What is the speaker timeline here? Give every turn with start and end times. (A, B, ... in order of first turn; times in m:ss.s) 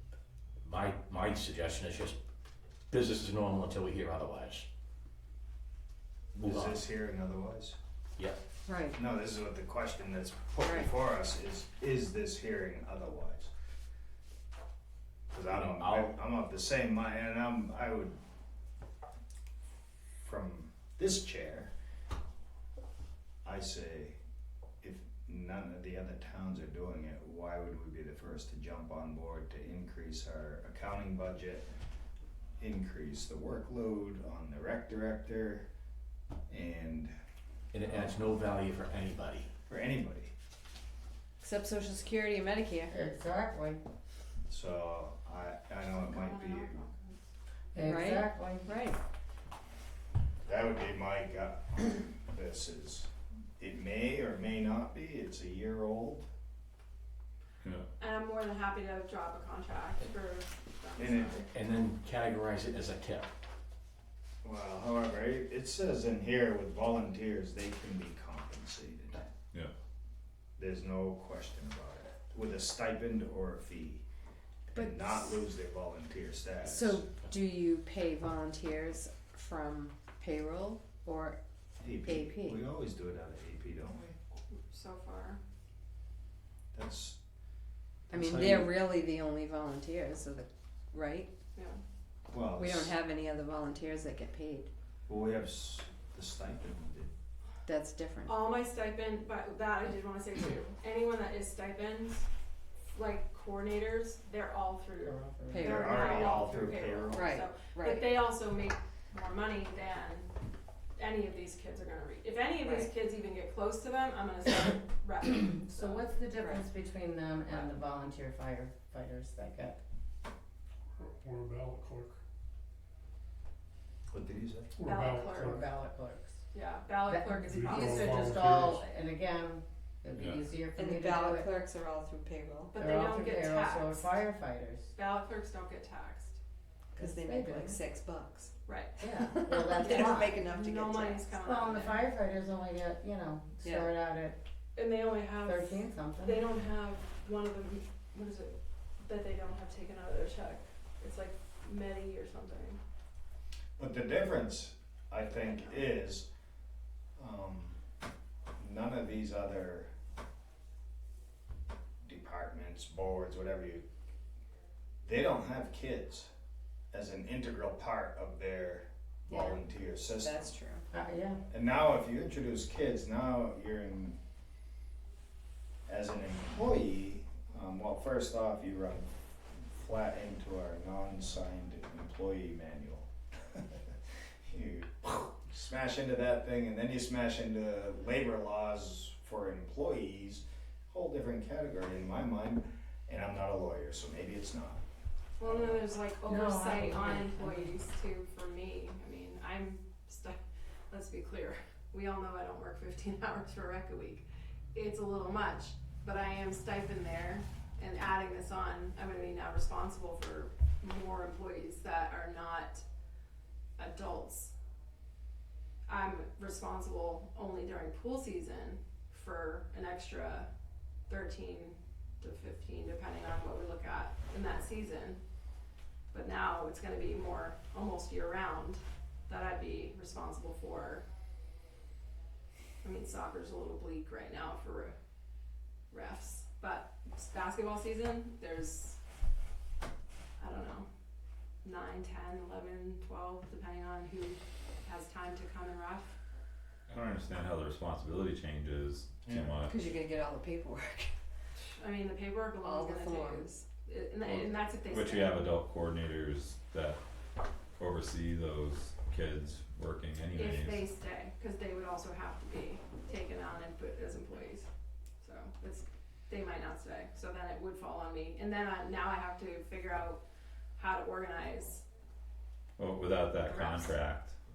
0:00.6-0:02.2 A
0:02.9-0:04.7 A
0:06.3-0:06.8 A
0:06.4-0:07.8 B
0:08.7-0:09.0 C
0:08.9-0:13.5 B
0:10.6-0:10.9 C
0:15.3-0:18.2 B
0:15.5-0:16.1 A
0:20.2-0:21.7 B
0:23.4-0:24.2 B
0:24.8-0:31.7 B
0:32.6-0:35.7 B
0:36.5-0:37.1 B
0:37.7-0:39.5 A
0:37.8-0:38.2 B
0:39.7-0:40.3 B
0:41.4-0:42.9 C
0:42.9-0:43.8 D
0:44.5-0:46.8 B
0:45.8-0:47.1 E
0:47.7-0:48.7 D
0:47.8-0:49.0 C
0:50.4-0:56.3 B
0:58.0-1:01.5 E
1:01.0-1:01.4 B
1:01.4-1:03.3 A
1:04.4-1:09.3 B
1:10.6-1:14.0 B
1:14.7-1:17.1 B
1:14.7-1:15.5 C
1:16.6-1:21.4 C
1:21.8-1:24.2 B
1:22.0-1:22.6 C
1:24.5-1:25.4 E
1:26.7-1:27.2 B
1:28.1-1:28.8 B
1:28.1-1:31.3 C
1:31.5-1:31.8 E
1:32.3-1:33.0 B
1:32.5-1:34.7 C
1:35.1-1:37.1 B
1:37.6-1:38.4 C
1:38.2-1:42.3 E
1:42.9-1:50.3 E
1:45.0-1:46.6 D
1:45.5-1:46.4 C
1:45.6-1:47.3 B
1:47.1-1:48.2 C
1:51.0-1:56.1 E
1:52.6-1:52.9 C
1:55.6-1:59.8 D
1:56.4-1:56.7 C
1:57.5-1:57.7 E
2:01.0-2:02.2 F
2:04.1-2:04.7 B
2:04.8-2:05.7 F
2:04.8-2:05.6 E
2:05.3-2:06.4 D
2:06.5-2:08.8 E
2:07.1-2:11.6 D
2:07.5-2:08.8 F
2:10.7-2:12.8 C
2:12.7-2:14.2 E
2:12.7-2:14.9 D
2:14.9-2:16.4 E
2:16.9-2:18.5 C
2:17.0-2:17.8 D
2:18.6-2:19.0 E
2:19.0-2:20.4 D
2:19.2-2:21.3 C
2:19.7-2:22.1 E
2:21.4-2:24.4 D
2:23.6-2:23.9 C
2:24.8-2:32.8 E
2:25.4-2:26.4 D
2:33.8-2:36.3 B
2:35.4-2:35.8 E
2:37.2-2:37.8 B
2:38.6-2:39.9 B
2:42.0-2:43.8 B
2:45.0-2:46.3 B
2:46.9-2:50.5 B
2:49.3-2:50.8 C
2:50.9-2:51.4 D
2:51.5-2:54.2 B
2:55.9-3:14.8 B
3:15.4-3:20.4 E
3:15.4-3:15.8 B
3:16.2-3:17.8 D
3:20.9-3:32.8 E
3:33.8-3:34.5 E
3:35.9-3:40.5 E
3:41.1-3:45.2 E
3:46.1-3:51.0 E
3:52.8-3:55.0 E
3:55.9-3:59.0 E
4:00.4-4:00.9 E
4:01.6-4:06.2 E
4:06.9-4:09.9 G
4:09.2-4:09.6 B
4:09.6-4:11.1 C
4:11.6-4:15.5 E
4:12.6-4:13.5 C
4:14.2-4:17.0 G
4:17.7-4:20.9 G
4:20.3-4:24.7 E
4:25.2-4:30.2 E
4:30.8-4:31.8 E
4:32.8-4:34.3 G
4:33.5-4:34.0 E